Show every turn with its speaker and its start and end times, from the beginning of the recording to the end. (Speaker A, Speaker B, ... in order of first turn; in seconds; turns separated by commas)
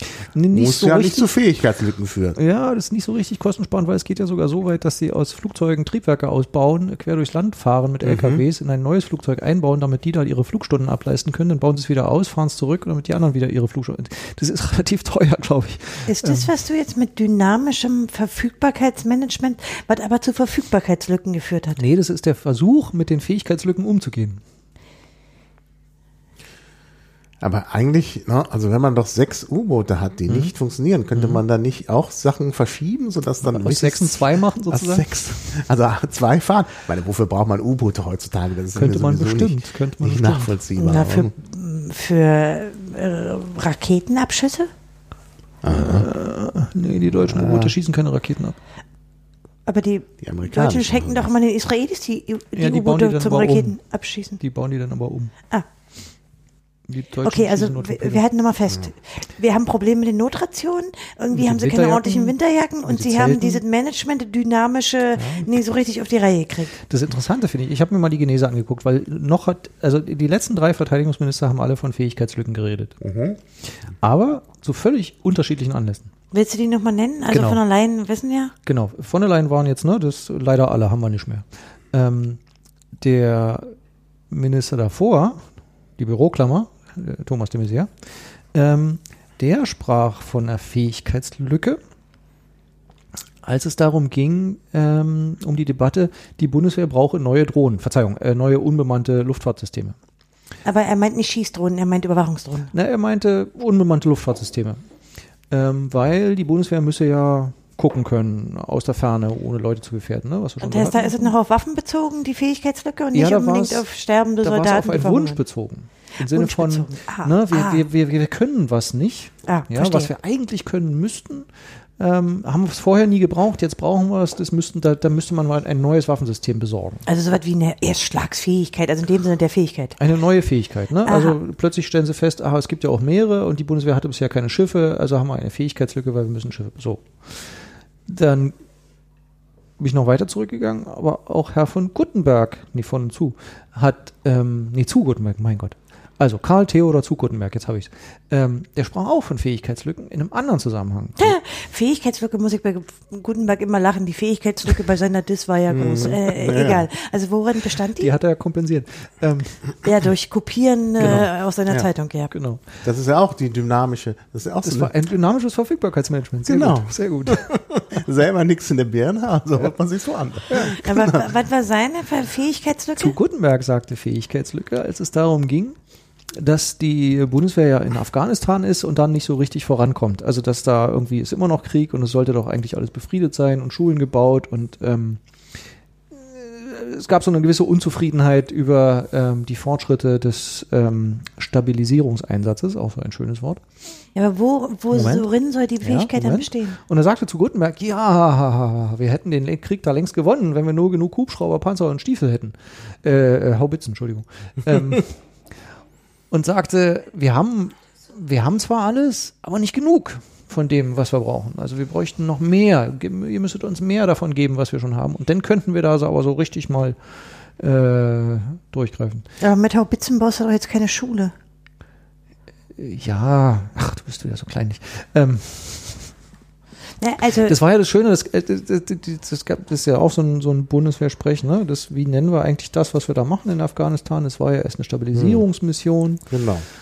Speaker A: 0.2-1.3, Speaker B: 0.5-2.4, Speaker A: 2.4-16.5, Speaker B: 8.0-8.4, Speaker C: 16.1-21.8, Speaker A: 21.8-24.4, Speaker B: 27.4-41.3, Speaker A: 31.1-31.4, Speaker A: 33.4-35.0, Speaker A: 38.7-40.5, Speaker C: 40.8-44.7, Speaker B: 45.6-46.1, Speaker A: 45.7-48.5, Speaker B: 47.3-47.7, Speaker C: 49.7-54.4, Speaker B: 50.2-51.3, Speaker A: 52.5-53.8, Speaker A: 54.4-55.3, Speaker A: 56.9-58.2, Speaker C: 57.2-66.8, Speaker A: 61.3-63.6, Speaker A: 65.2-65.5, Speaker A: 66.9-73.0, Speaker B: 73.0-73.4, Speaker A: 74.0-76.1, Speaker C: 76.3-78.5, Speaker A: 77.3-77.6, Speaker A: 78.7-82.4, Speaker A: 83.0-83.7, Speaker A: 84.3-85.4, Speaker A: 86.0-91.8, Speaker A: 93.4-100.0, Speaker C: 100.6-102.7, Speaker A: 102.7-104.8, Speaker A: 105.5-111.3, Speaker C: 110.6-115.4, Speaker A: 113.1-113.8, Speaker A: 114.4-127.0, Speaker C: 116.3-117.8, Speaker C: 119.5-120.1, Speaker C: 127.0-130.0, Speaker A: 130.0-138.5, Speaker C: 131.1-131.3, Speaker A: 139.8-151.3, Speaker C: 151.2-158.1, Speaker B: 155.7-156.9, Speaker A: 158.0-159.7, Speaker C: 159.8-162.3, Speaker A: 161.0-161.3, Speaker A: 162.3-162.6, Speaker B: 162.8-164.9, Speaker A: 164.6-167.5, Speaker B: 166.4-171.2, Speaker C: 170.6-173.2, Speaker A: 173.0-175.8, Speaker A: 176.3-185.2, Speaker A: 186.1-193.6, Speaker C: 194.2-196.8, Speaker A: 194.9-195.3, Speaker A: 195.8-205.1, Speaker A: 206.3-219.3, Speaker C: 219.4-221.3, Speaker A: 222.8-226.1, Speaker C: 227.0-227.6, Speaker A: 227.4-236.2, Speaker B: 235.1-235.4, Speaker B: 236.3-236.7